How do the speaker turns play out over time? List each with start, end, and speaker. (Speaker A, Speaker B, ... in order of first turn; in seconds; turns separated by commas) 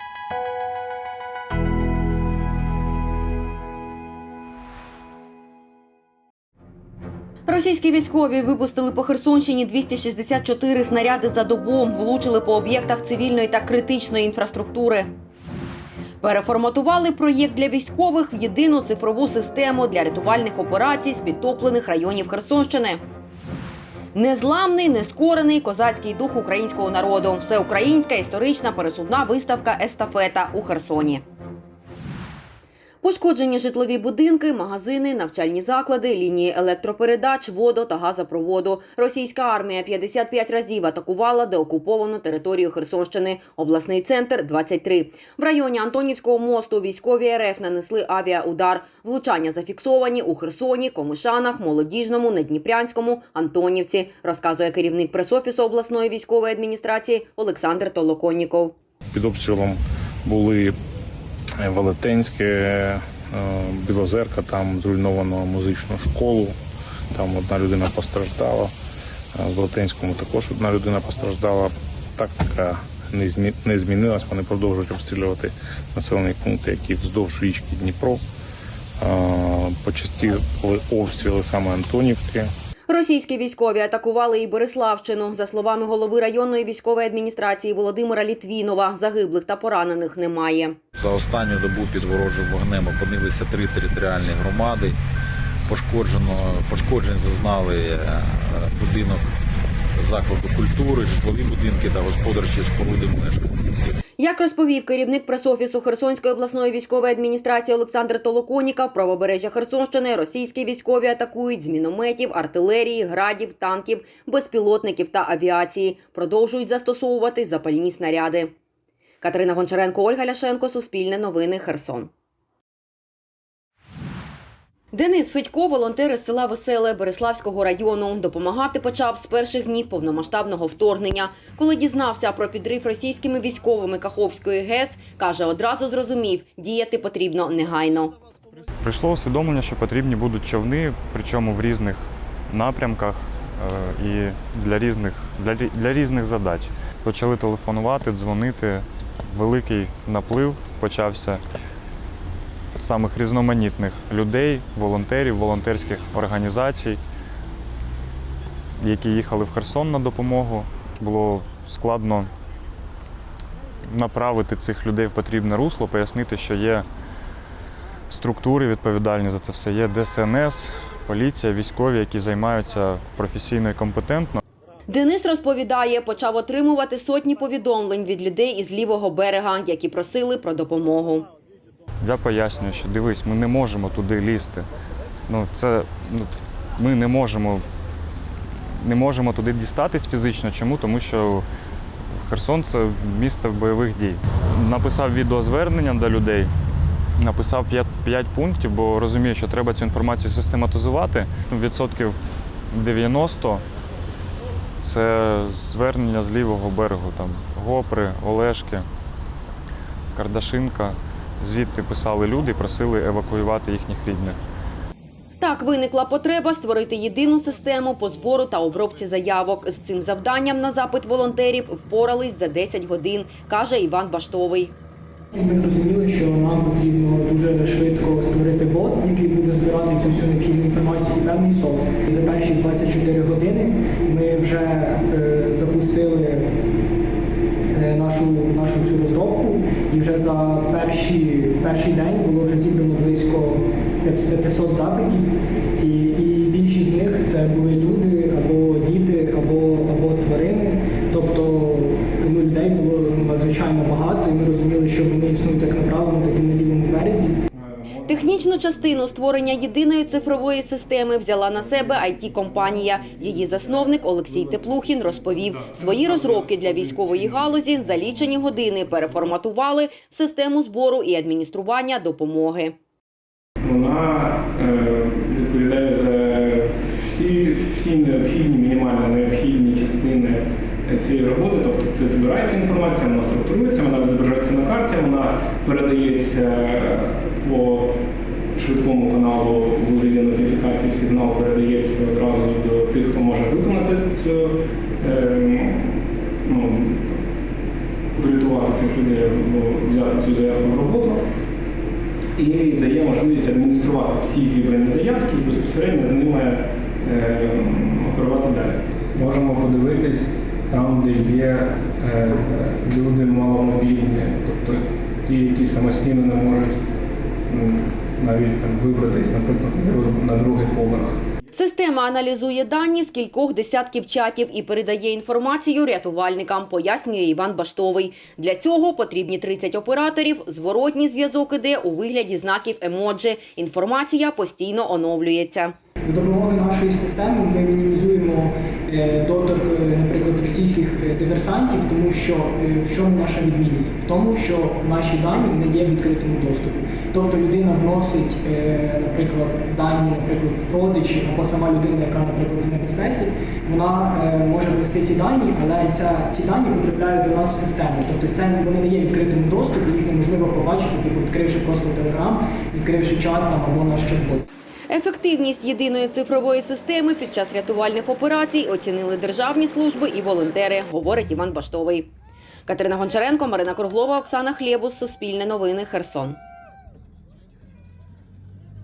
Speaker A: 7.5-15.1, Speaker A: 16.2-23.0, Speaker A: 24.1-31.2, Speaker A: 33.0-58.7, Speaker B: 59.1-60.7, Speaker B: 61.6-66.5, Speaker B: 67.1-68.7, Speaker B: 69.3-78.2, Speaker B: 79.0-82.5, Speaker A: 82.9-90.8, Speaker C: 90.9-95.0, Speaker C: 95.7-99.3, Speaker C: 100.0-103.9, Speaker A: 104.2-118.5, Speaker A: 119.2-122.1, Speaker A: 124.9-138.1, Speaker D: 138.8-151.4, Speaker D: 152.7-157.0, Speaker D: 158.8-162.3, Speaker D: 163.9-166.8, Speaker D: 168.1-174.4, Speaker A: 174.9-181.3, Speaker D: 182.0-184.7, Speaker D: 185.3-187.6, Speaker D: 188.7-191.5, Speaker D: 192.1-196.5, Speaker D: 197.2-202.2, Speaker D: 202.7-203.6, Speaker D: 204.8-208.8, Speaker D: 210.1-214.4, Speaker A: 215.4-224.7, Speaker E: 225.3-236.5, Speaker E: 237.7-257.4, Speaker F: 257.5-258.7, Speaker A: 258.1-272.7, Speaker F: 261.6-262.9, Speaker F: 263.4-267.5, Speaker F: 273.6-297.2, Speaker F: 298.1-301.2, Speaker F: 302.3-316.8, Speaker F: 317.5-321.2, Speaker A: 321.5-335.7, Speaker E: 336.0-364.4, Speaker A: 364.9-372.1, Speaker A: 372.6-376.4